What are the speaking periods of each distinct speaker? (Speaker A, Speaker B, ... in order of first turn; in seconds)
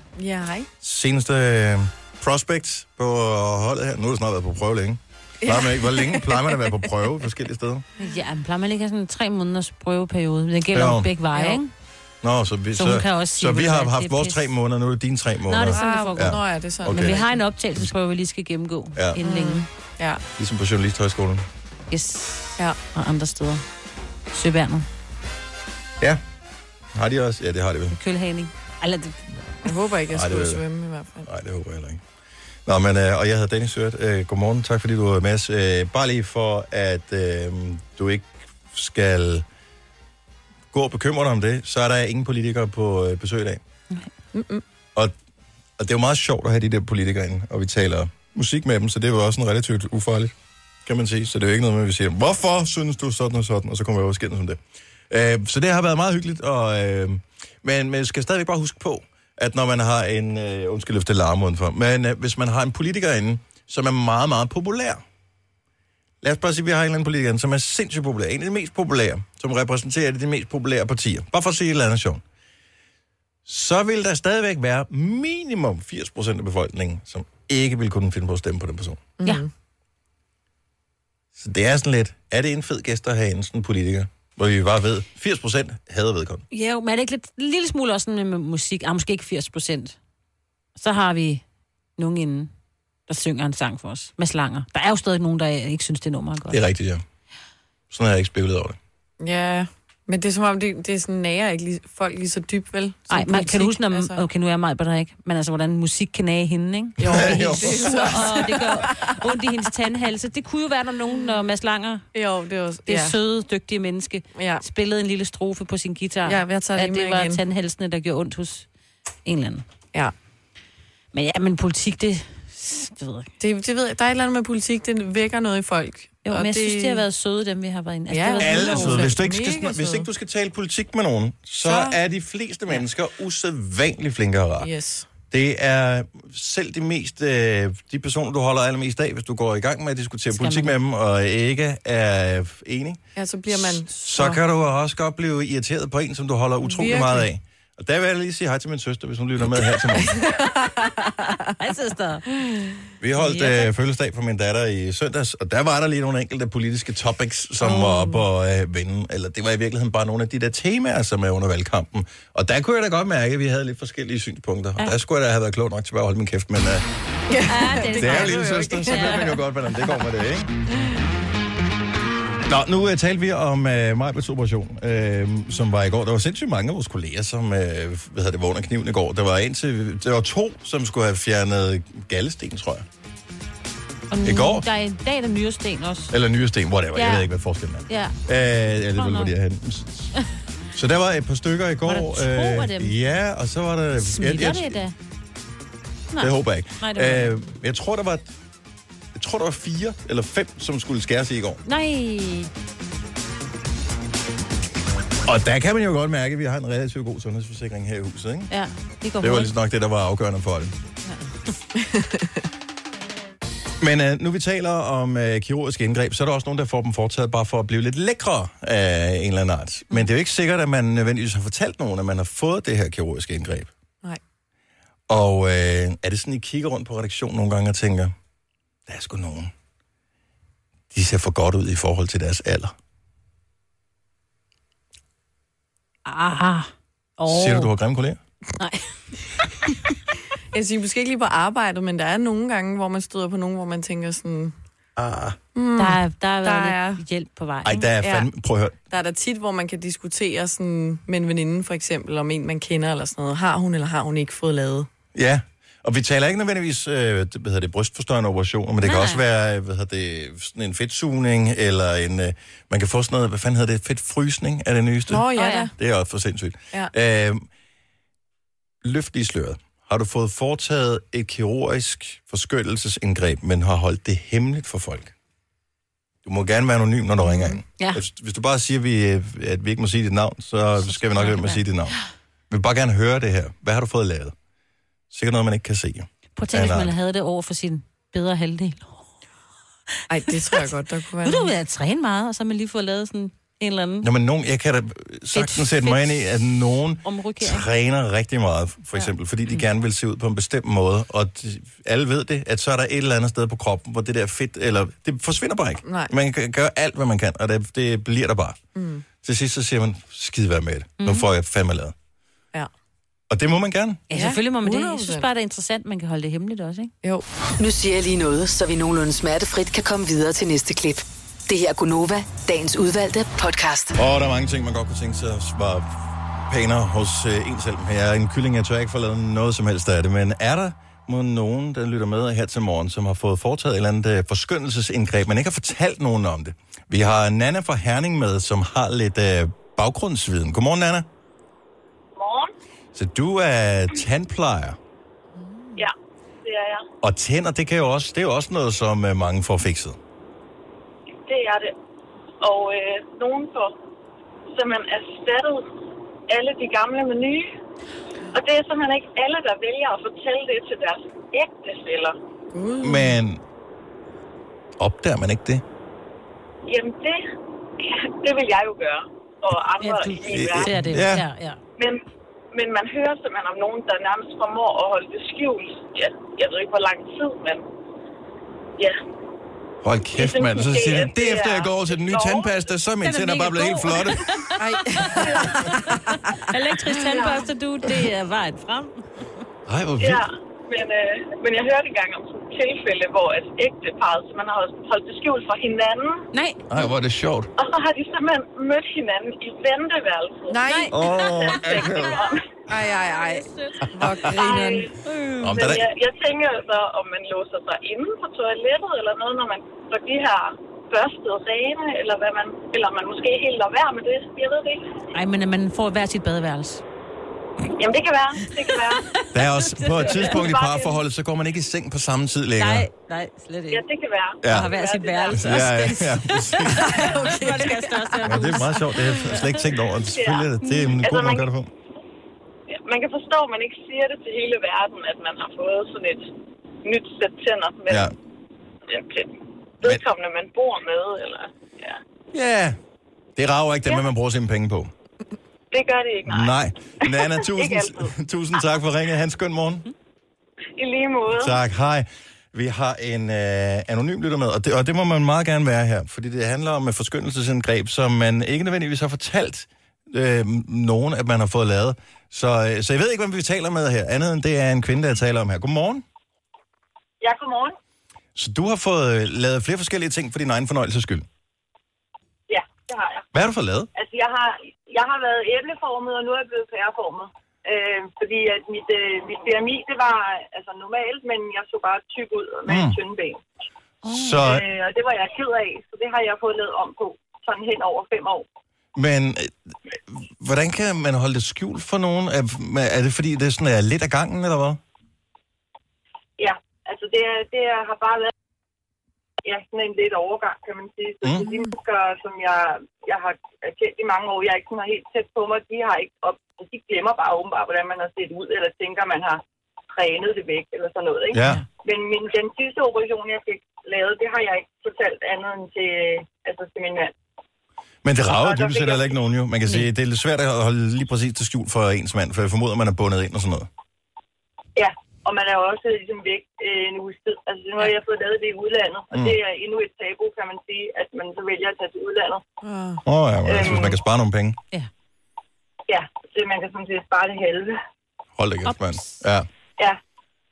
Speaker A: 0.2-0.7, 5.4-6.9, 11.3-11.6, 15.7-17.4, 19.2-20.2, 29.6-31.3, 44.3-44.6, 79.2-79.5, 99.2-104.2, 107.0-109.0, 112.1-113.2, 114.3-114.7, 116.2-117.4, 123.4-127.0, 128.1-130.1, 131.6-132.0, 134.6-135.1, 143.2-144.4, 146.6-147.3, 149.9-151.5, 152.4-152.8, 157.6-158.2, 167.3-169.4, 211.8-212.4, 240.5-244.5, 245.6-247.0, 248.0-248.3, 248.9-254.9, 265.1-265.7, 277.2-277.6, 290.1-291.5, 305.9-306.1, 308.8-309.1, 314.1-315.3, 345.4-345.8, 362.5-363.2, 384.6-387.0, 400.5-401.0, 402.7-404.9, 426.7-428.6, 532.6-533.0
Speaker B: 0.8-7.8, 10.7-11.1, 12.2-17.2, 18.9-19.2, 20.4-21.5, 26.9-28.0, 30.1-30.6, 31.3-32.0, 32.7-39.5, 40.7-43.6, 45.8-50.3, 50.9-54.6, 55.1-65.0, 66.2-72.2, 73.5-79.0, 81.4-86.4, 96.5-97.0, 97.9-98.8, 107.0-108.6, 128.4-134.7, 135.3-150.3, 153.0-166.9, 167.7-170.5, 172.5-182.8, 184.2-184.7, 186.1-190.1, 190.7-194.8, 196.2-198.3, 199.2-201.6, 205.2-208.5, 209.2-210.8, 213.8-223.7, 225.1-228.1, 228.9-229.5, 230.9-232.7, 237.3-238.2, 245.0-245.4, 247.7-248.8, 255.1-267.5, 268.8-275.1, 276.2-282.0, 282.5-284.4, 285.1-286.9, 294.0-308.6, 309.2-311.9, 313.3-314.0, 324.0-341.1, 342.9-344.8, 347.0-350.0, 362.8-363.4, 364.8-365.6, 370.3-371.3, 379.8-384.3, 389.7-390.2, 396.7-397.5, 400.9-402.2, 405.4-405.9, 419.3-422.9, 424.4-424.7, 425.3-427.1, 428.2-431.7, 437.9-438.1, 442.3-442.8, 443.4-444.9, 446.3-449.9, 451.3-466.1, 468.4-471.3, 473.3-473.9, 482.7-483.0, 484.1-484.6, 488.9-494.8, 501.2-501.5, 511.3-511.6, 518.0-523.7, 533.0-534.6, 538.4-539.5
Speaker C: 8.0-11.7, 12.8-14.5, 15.5-19.7, 21.9-23.6, 24.3-24.9, 27.9-29.5, 86.5-90.0, 90.8-91.4, 92.0-92.5, 93.1-96.6, 103.1-112.1, 112.9-118.7, 119.2-119.6, 121.1-123.3, 126.2-129.1, 140.3-140.8, 151.6-152.2, 153.2-153.7, 167.5-169.4, 184.1-186.1, 186.9-187.3, 187.9-188.2, 188.9-189.3, 191.8-192.9, 194.0-194.9, 196.1-197.4, 201.7-202.5, 208.5-209.5, 236.1-237.7, 238.6-238.8, 245.8-247.9, 258.8-259.2, 265.4-265.7, 280.8-281.9, 286.4-289.0, 291.2-294.1, 295.3-296.5, 297.0-297.7, 311.0-311.3, 314.1-316.9, 369.8-371.6, 383.0-389.1, 396.3-396.7, 400.7-402.2, 403.1-404.0, 405.0-405.6, 415.1-416.8, 419.2-420.5, 422.6-423.9, 424.4-429.6, 430.6-430.9, 484.0-484.5, 538.6-539.2
Speaker D: 317.6-323.9
Speaker E: 342.2-342.5, 346.4-346.9, 351.3-351.7, 352.4-353.8, 354.5-355.7, 356.3-357.5, 358.3-362.1, 366.7-367.2, 367.8-370.8, 371.8-372.0, 372.5-377.6, 380.1-382.5, 387.1-387.4, 390.0-396.3, 397.6-402.4, 404.3-404.9, 405.5-414.9, 417.8-419.1, 420.0-421.0, 423.7-425.7, 430.1-431.5, 432.7-436.3, 436.9-438.1, 438.9-442.0, 445.7-446.5, 447.1-448.1, 450.8-451.6, 467.2-467.8, 472.5-473.3, 473.9-483.4, 484.4-488.5, 496.4-498.3, 499.4-509.4, 509.9-517.1, 518.3-519.1, 524.8-532.4, 533.5-534.0, 535.9-537.8